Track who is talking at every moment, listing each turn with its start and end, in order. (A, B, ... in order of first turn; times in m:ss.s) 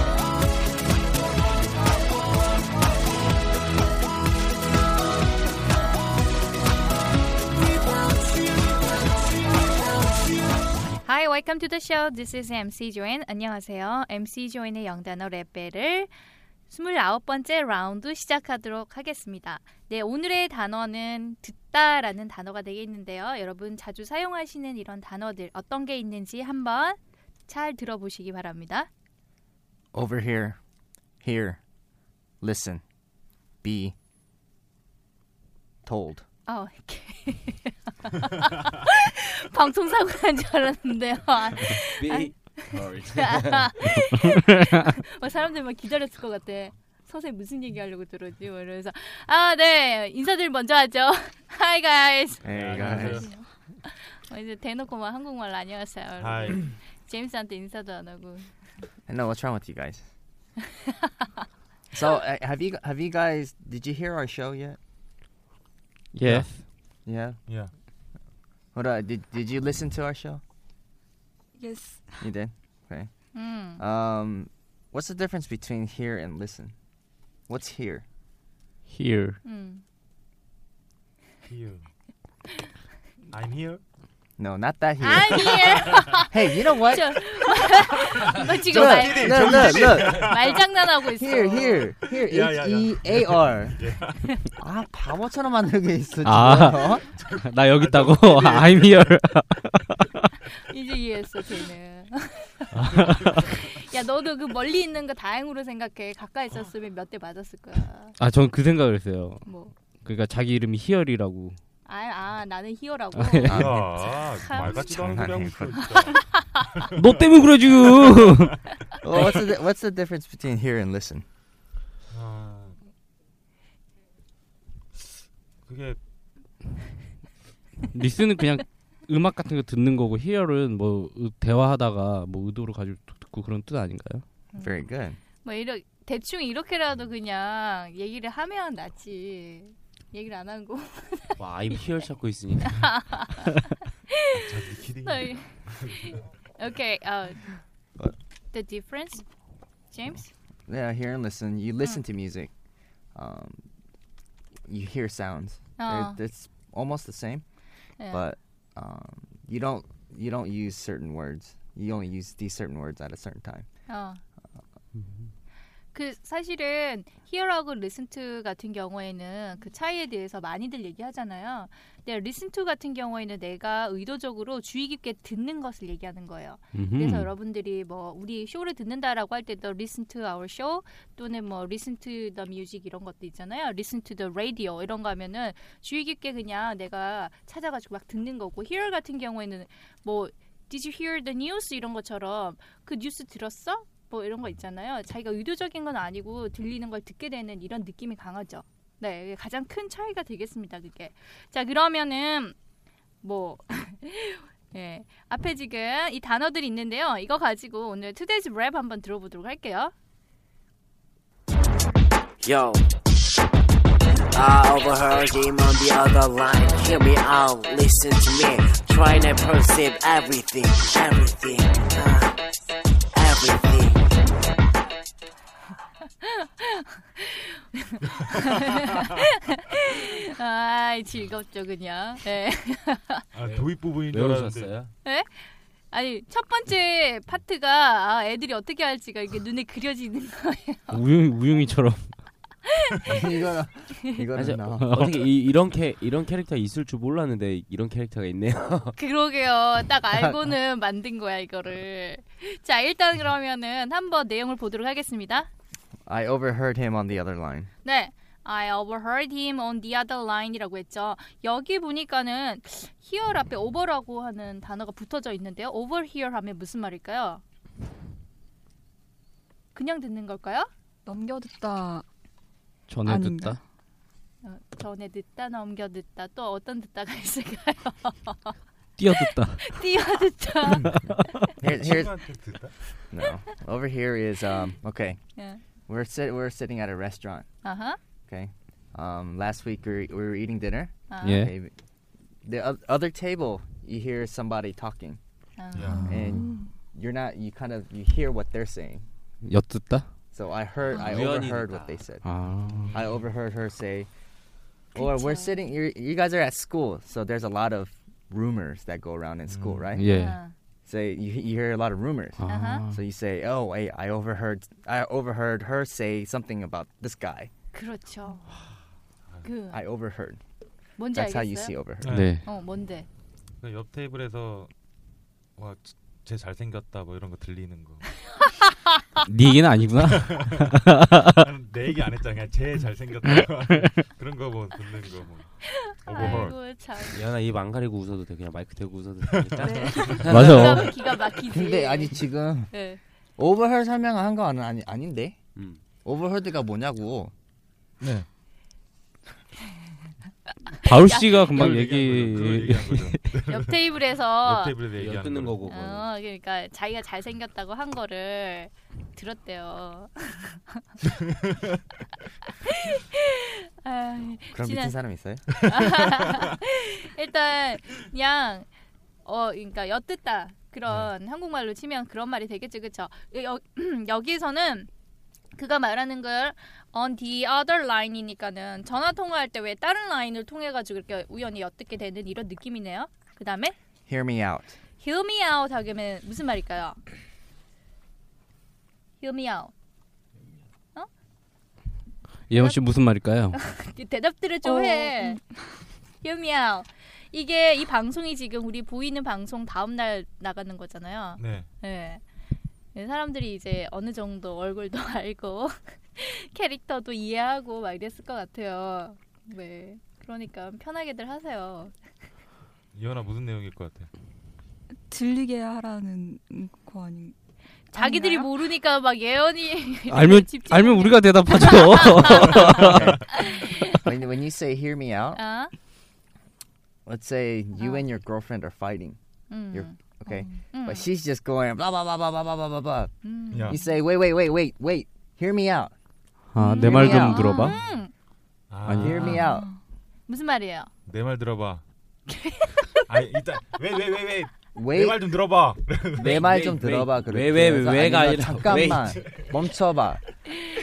0:11.0-0:16.1 A
0:16.7-0:28.9 A
0:29.9-0:30.6 B
0:31.2-0:31.6 B
0:32.4-0:32.8 B
0:33.6-0:33.9 B
0:35.8-0:36.2 B
0:36.4-0:58.5 A
0:42.0-0:43.7 C
0:52.4-0:53.3 B
0:52.4-0:53.3 D
0:56.2-0:56.7 D
0:59.1-1:00.0 B
1:01.9-1:04.8 B
1:06.1-1:06.6 E
1:06.2-1:06.5 D
1:07.0-1:07.4 B
1:08.7-1:10.4 B
1:11.5-1:12.3 F
1:12.2-1:13.1 B
1:13.3-1:13.8 A
1:13.7-1:16.7 B
1:17.5-1:18.0 B
1:18.9-1:19.4 E
1:19.4-1:19.8 A
1:21.4-1:21.9 D
1:23.3-1:23.8 D
1:24.4-1:27.6 B
1:25.0-1:31.9 A
1:28.4-1:30.7 D
1:28.7-1:30.3 B
1:31.2-1:33.8 B
1:32.1-1:34.3 D
1:34.6-1:37.0 B
1:36.2-1:40.3 E
1:37.2-1:39.1 D
1:40.7-1:48.2 A
1:42.7-1:43.5 E
1:42.9-1:43.3 D
1:48.2-1:51.6 E
1:49.4-1:49.7 A
1:51.8-1:56.2 A
1:53.1-1:53.8 E
1:53.4-1:56.2 D
1:53.5-1:53.8 B
1:54.7-1:55.9 B
1:56.9-1:57.3 D
1:57.0-1:58.6 E
1:57.8-1:58.3 D
1:59.0-2:01.2 B
2:02.1-2:02.8 D
2:05.6-2:06.0 D
2:07.9-2:14.2 E
2:14.5-2:14.8 A
2:14.6-2:15.2 B
2:15.4-2:21.4 A
2:21.4-2:22.9 C
2:22.6-2:24.3 A
2:24.3-2:26.2 D
2:25.0-2:27.6 A
2:28.5-2:29.2 A
2:29.9-2:30.3 A
2:30.7-2:32.5 B
2:33.1-2:33.6 B
2:34.6-2:37.4 B
2:35.8-2:36.2 A
2:38.0-2:38.2 A
2:38.1-2:43.7 B
2:43.9-2:44.2 A
2:45.9-3:22.6 A
2:56.7-2:57.3 E
3:23.2-3:29.9 A
3:32.4-3:32.9 G
3:34.3-3:42.5 G
3:43.1-3:44.1 G
3:46.2-3:53.2 A
3:48.3-3:49.0 D
3:53.3-3:54.8 D
3:53.4-3:54.9 C
3:55.0-4:01.0 A
4:00.9-4:02.1 E
4:02.9-4:03.1 A
4:03.0-4:05.0 B
4:04.3-4:09.0 C
4:04.8-4:05.1 E
4:09.0-4:15.5 A
4:10.1-4:10.5 B
4:16.0-4:17.7 B
4:17.8-4:27.4 A
4:29.7-4:30.7 A
4:31.0-4:32.0 F
4:32.9-4:33.6 E
4:33.0-4:33.6 F
4:34.4-4:38.6 A
4:39.0-4:39.8 E
4:39.1-4:41.0 A
4:40.9-4:41.4 E
4:41.6-4:42.2 B
4:41.6-4:42.8 D
4:43.1-4:45.2 B
4:45.4-4:45.6 A
4:45.8-4:47.5 B
4:47.6-4:48.0 A
4:48.3-4:51.7 B
4:51.1-4:51.4 A
4:51.2-4:51.5 E
4:52.4-4:55.2 B
4:55.6-4:56.1 A
4:55.7-4:56.2 D
4:55.9-4:56.7 F
4:56.1-4:59.0 B
4:59.4-5:00.1 E
5:00.3-5:02.2 B
5:00.9-5:02.0 C
5:02.2-5:02.9 E
5:02.8-5:03.1 D
5:02.9-5:04.1 B
5:04.9-5:10.0 B
5:05.0-5:05.5 A
5:09.5-5:10.0 D
5:10.0-5:10.4 E
5:10.0-5:10.5 A
5:10.8-5:17.5 B
5:12.4-5:13.0 E
5:12.5-5:12.8 A
5:17.7-5:18.5 A
5:19.4-5:19.8 A
5:19.7-5:20.4 B
5:21.0-5:21.8 A
5:21.1-5:22.1 B
5:22.0-5:22.4 D
5:22.0-5:22.4 E
5:22.4-5:23.1 A
5:23.6-5:24.7 D
5:25.6-5:28.0 D
5:29.2-5:31.4 E
5:30.0-5:35.5 D
5:33.2-5:34.0 E
5:35.6-5:37.2 A
5:36.0-5:36.6 D
5:37.1-5:40.8 C
5:39.3-5:40.3 D
5:39.6-5:40.1 F
5:39.6-5:43.0 A
5:40.2-5:40.9 E
5:41.5-5:42.7 B
5:43.4-5:45.4 B
5:45.5-5:45.8 C
5:46.0-5:47.3 B
5:48.0-5:48.3 D
5:50.8-5:53.2 E
5:50.8-5:51.4 A
5:51.2-5:55.6 D
5:53.5-5:54.8 A
5:54.9-5:56.1 C
5:55.6-6:00.8 A
6:02.6-6:05.0 A
6:04.5-6:05.4 B
6:05.5-6:08.7 A
6:09.2-6:14.9 A
6:15.5-6:23.7 A
6:24.1-6:24.8 B
6:25.0-6:27.0 A
6:29.2-6:29.7 A
6:32.5-6:33.6 E
6:32.5-6:32.8 A
6:33.5-6:35.4 A
6:34.6-6:35.6 F
6:36.2-6:42.2 A
6:41.4-6:41.7 D
6:42.9-6:51.9 A
6:52.9-6:54.1 D
6:55.0-6:57.3 F
6:57.9-6:58.5 F
6:57.9-7:04.0 A
7:00.1-7:03.1 E
7:02.8-7:05.4 B
7:05.3-7:05.7 A
7:07.0-7:09.2 B
7:07.8-7:08.0 A
7:09.5-7:10.0 A
7:09.7-7:13.1 B
7:10.7-7:11.1 A
7:13.2-7:13.8 A
7:13.5-7:13.8 D
7:13.6-7:15.9 B
7:16.5-7:17.8 E
7:16.6-7:18.1 A
7:16.9-7:17.4 B
7:17.6-7:17.8 D
7:18.7-7:19.4 D
7:18.8-7:19.4 E
7:19.0-7:19.7 B
7:19.3-7:19.8 F
7:20.3-7:20.9 A
7:21.0-7:21.8 D
7:22.3-7:23.0 A
7:23.1-7:26.4 D
7:24.7-7:25.2 B
7:26.2-7:29.2 C
7:26.2-7:30.2 B